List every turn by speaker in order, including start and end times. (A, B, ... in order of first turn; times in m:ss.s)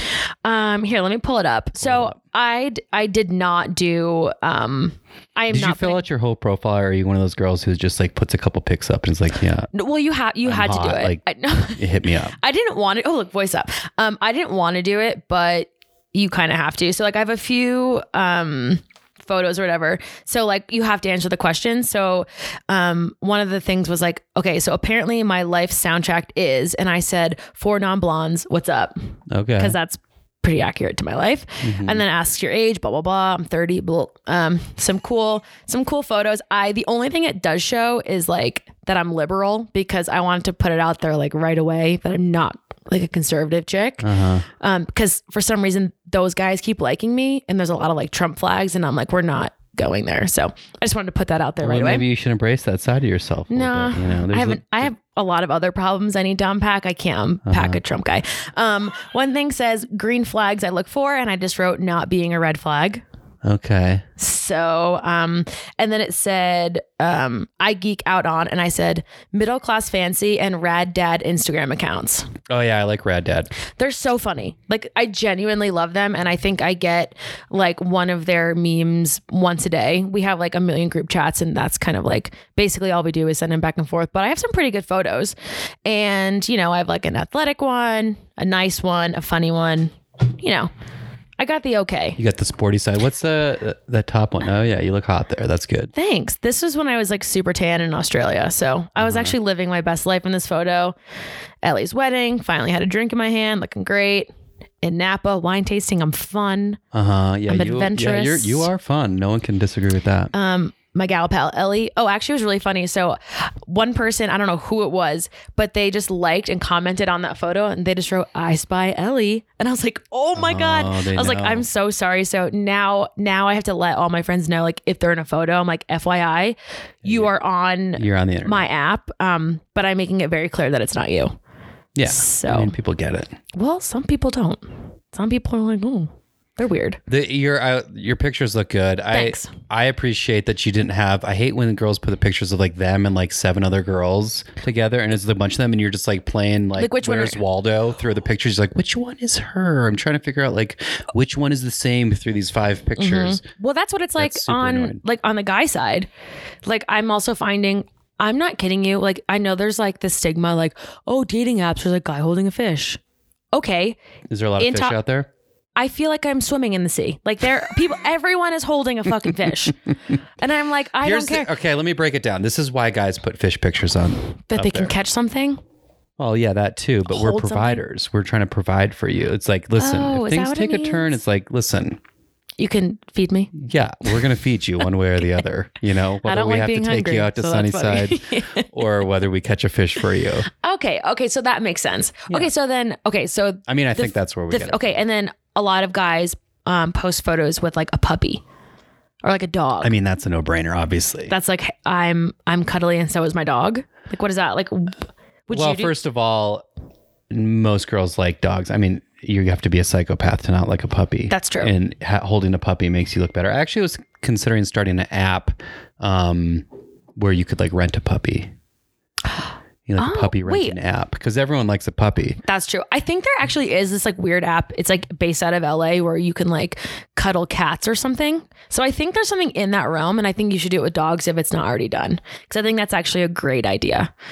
0:00.4-0:06.0 A
0:01.8-0:02.1 B
0:05.5-0:09.7 B
0:09.7-0:11.8 A
0:10.4-0:11.2 B
0:11.7-0:12.3 B
0:12.4-0:28.9 A
0:29.3-0:29.8 B
0:29.6-0:52.0 A
0:31.6-0:32.0 B
0:44.0-0:44.4 B
0:51.6-0:54.9 B
0:53.5-1:03.0 A
0:57.4-0:57.8 B
1:03.4-1:04.0 B
1:04.2-1:12.3 A
1:12.5-1:13.5 B
1:13.8-1:25.3 A
1:25.8-1:30.7 A
1:31.4-1:32.2 A
1:32.2-1:35.9 B
1:35.9-1:40.9 A
1:39.0-1:39.3 B
1:41.6-1:44.3 A
1:44.8-1:46.8 A
1:46.9-1:50.3 B
1:47.5-1:48.7 A
1:50.3-2:11.3 A
2:00.4-2:01.6 B
2:07.0-2:07.3 B
2:08.0-2:08.6 B
2:12.0-2:13.3 B
2:12.0-2:12.7 A
2:13.5-2:17.0 A
2:17.1-2:33.4 B
2:19.1-2:19.5 A
2:26.8-2:27.4 A
2:33.0-2:36.1 A
2:34.2-2:35.0 B
2:36.6-2:43.0 A
2:43.5-2:44.0 A
2:44.3-2:45.3 B
2:44.6-2:45.0 A
2:45.8-2:49.8 A
2:50.4-2:51.5 A
2:51.0-2:54.9 B
2:54.5-2:55.6 A
2:56.2-3:02.0 B
2:57.1-2:57.8 A
2:59.8-3:01.2 A
3:02.6-3:03.5 A
3:03.6-3:10.5 B
3:06.2-3:08.7 A
3:10.5-3:18.4 A
3:13.7-3:14.9 B
3:19.2-3:19.9 A
3:19.8-3:21.3 B
3:21.3-3:25.0 A
3:25.5-3:25.9 A
3:25.5-3:26.6 B
3:27.3-3:36.6 B
3:31.3-3:31.7 A
3:37.2-3:38.5 B
3:39.9-3:42.4 B
3:40.0-3:40.7 A
3:42.4-3:54.1 A